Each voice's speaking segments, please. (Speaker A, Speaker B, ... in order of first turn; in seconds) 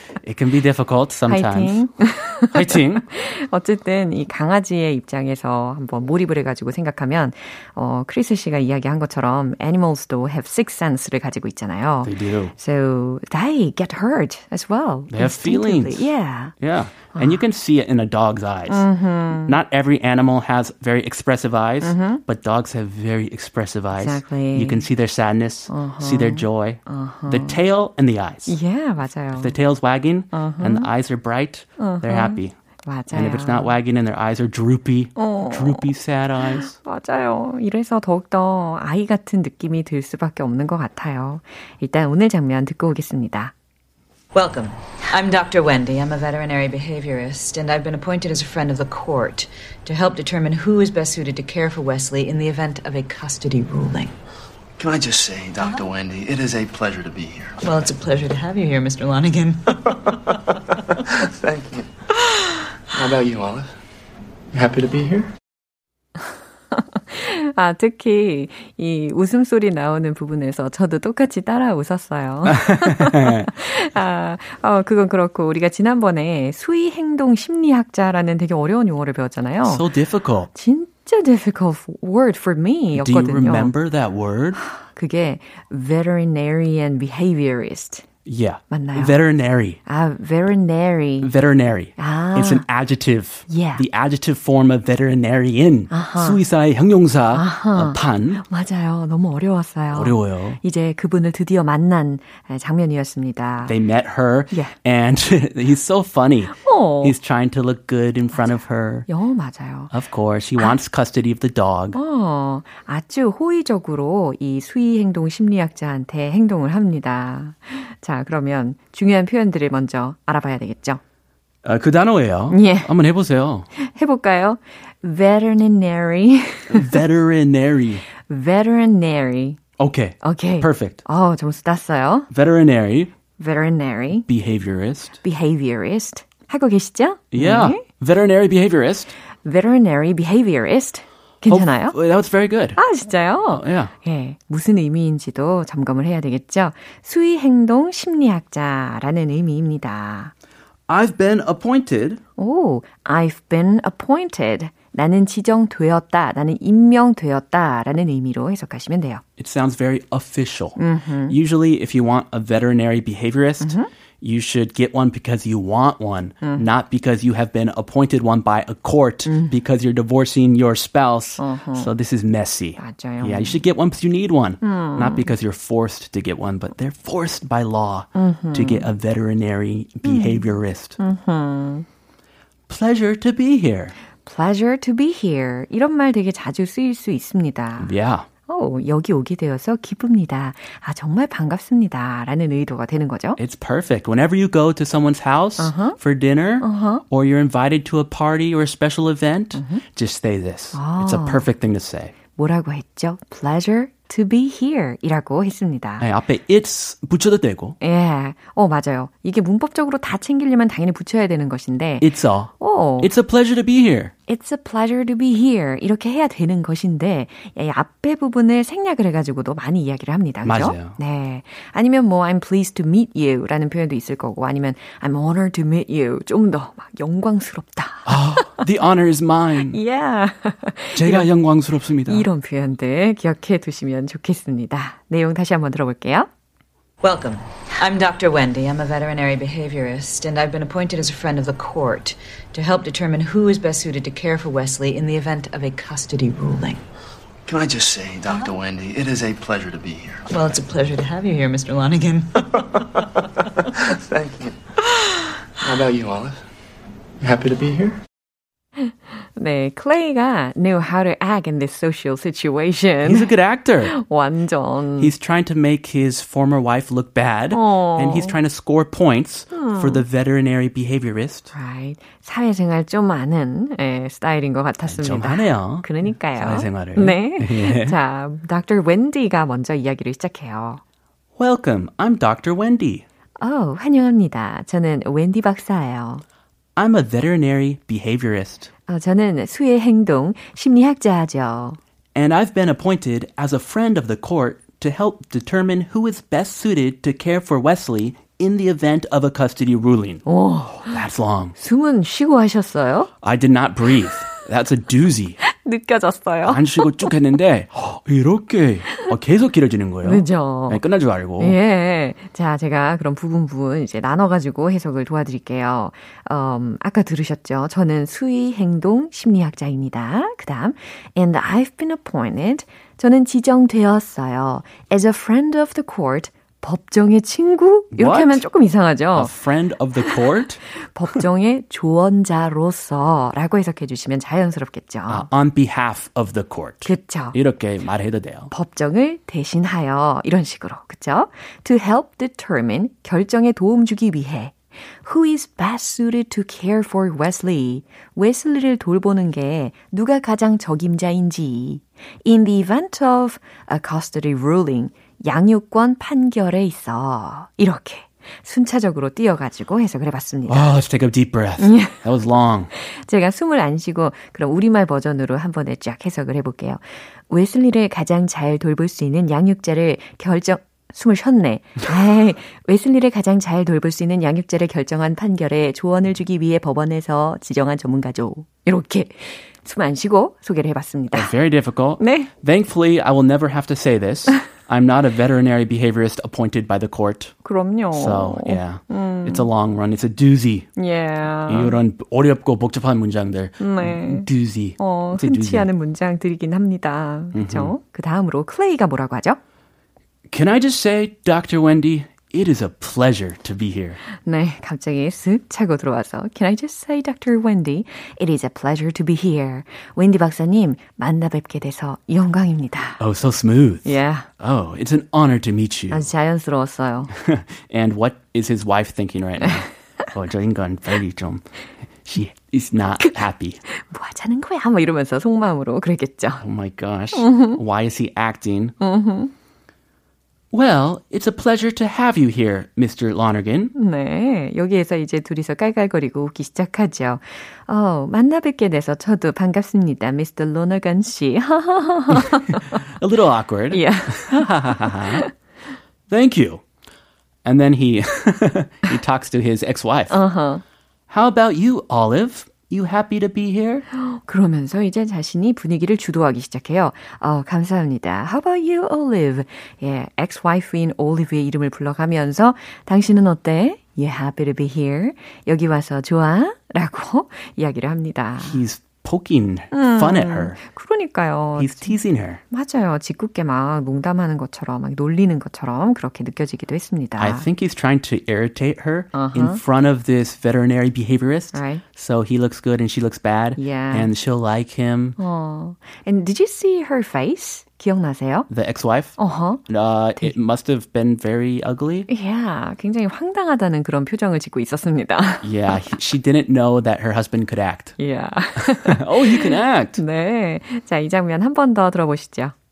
Speaker A: 0.2-1.9, 2.5-3.0, 12.0-12.5, 15.1-28.6, 29.3-32.5, 33.1-36.8, 72.4-73.5, 79.6-80.5, 82.9-84.6, 88.2-89.8, 91.2-98.4, 99.9-100.6, 103.6-109.1, 109.9-112.0, 121.6-123.7, 126.7-128.0, 129.8-131.0, 132.3-133.1, 134.3-135.2, 137.3-139.1, 141.5-142.8, 143.5-143.9, 150.9-152.2, 159.4-181.0, 182.7-183.9, 187.8-188.2, 193.4-202.1, 206.0-207.8, 212.0-214.1, 220.4-221.0, 228.1-229.8, 230.9-232.2, 263.0-263.9, 265.0-271.5, 274.8-277.9, 281.4-283.0, 286.8-288.7, 292.1-300.2, 300.8-301.6, 303.2-305.4, 306.4-311.6, 327.9-328.4, 329.1-330.6, 335.1-338.5, 360.5-362.7, 381.1-387.4, 387.9-390.7, 391.4-395.7, 397.3-397.7, 400.3-404.0, 413.0-416.1, 417.1-421.4, 422.0-423.6, 426.4-428.7, 430.5-433.7, 442.1-445.2, 446.1-446.6, 447.4-450.2, 451.1-453.8, 468.4-470.6, 471.6-472.4, 477.2-485.1, 488.5-492.1, 495.4-498.0, 498.6-500.0
Speaker B: 1.3-16.5, 17.1-17.4, 18.7-19.5, 21.8-22.2, 23.9-24.8, 25.7-27.6, 28.4-29.5, 30.3-30.9, 31.8-33.7, 35.2-35.9, 36.6-43.5, 66.2-79.9, 80.5-83.7, 84.6-88.0, 88.7-89.2, 89.8-91.3, 92.0-92.6, 93.5-93.8, 95.9-96.4, 97.3-103.7, 106.5-107.2, 109.1-109.9, 111.9-121.0, 122.5-122.9, 123.8-127.0, 128.2-129.6, 130.2-132.3, 133.4-134.3, 135.2-137.8, 139.4-141.9, 142.8-150.3, 152.4-159.2, 160.8-161.4, 163.6-163.9, 166.4-166.7, 169.2-169.5, 171.4-171.9, 172.8-173.6, 174.6-175.3, 178.1-178.9, 180.0-180.4, 181.0-181.8, 184.2-187.9, 188.5-193.4, 195.6-196.0, 196.6-197.0, 199.5-199.8, 200.7-201.5, 202.3-206.1, 207.8-213.1, 214.3-228.7, 229.7-231.3, 232.1-236.3, 258.8-263.3, 263.8-265.1, 267.5-268.4, 269.5-270.0, 271.5-280.8, 283.4-286.2, 288.9-291.8, 300.2-301.0, 301.6-303.1, 305.4-307.1, 310.0-310.8, 311.4-329.3, 330.8-335.3, 336.8-337.4, 338.5-360.7, 361.6-362.0, 362.7-381.3, 382.0-382.3, 387.4-389.5, 390.8-391.8, 393.6-394.3, 394.8-399.4, 404.1-413.0, 413.8-414.3, 415.9-417.1, 423.0-426.4, 427.1-427.6, 428.8-429.3, 433.7-442.8, 443.7-445.3, 450.1-450.6, 453.9-468.6, 469.7-472.0, 472.5-477.4, 479.1-479.6, 481.5-481.8, 483.6-484.1, 485.2-488.5, 489.2-489.6, 492.1-495.8, 498.0-502.5
Speaker C: 44.3-54.1, 57.6-60.0, 237.0-246.8, 250.3-252.4
Speaker D: 54.8-57.6, 61.2-61.9, 62.9-63.7, 64.5-65.3, 247.5-250.2, 253.8-254.6, 255.6-256.4, 257.2-258.0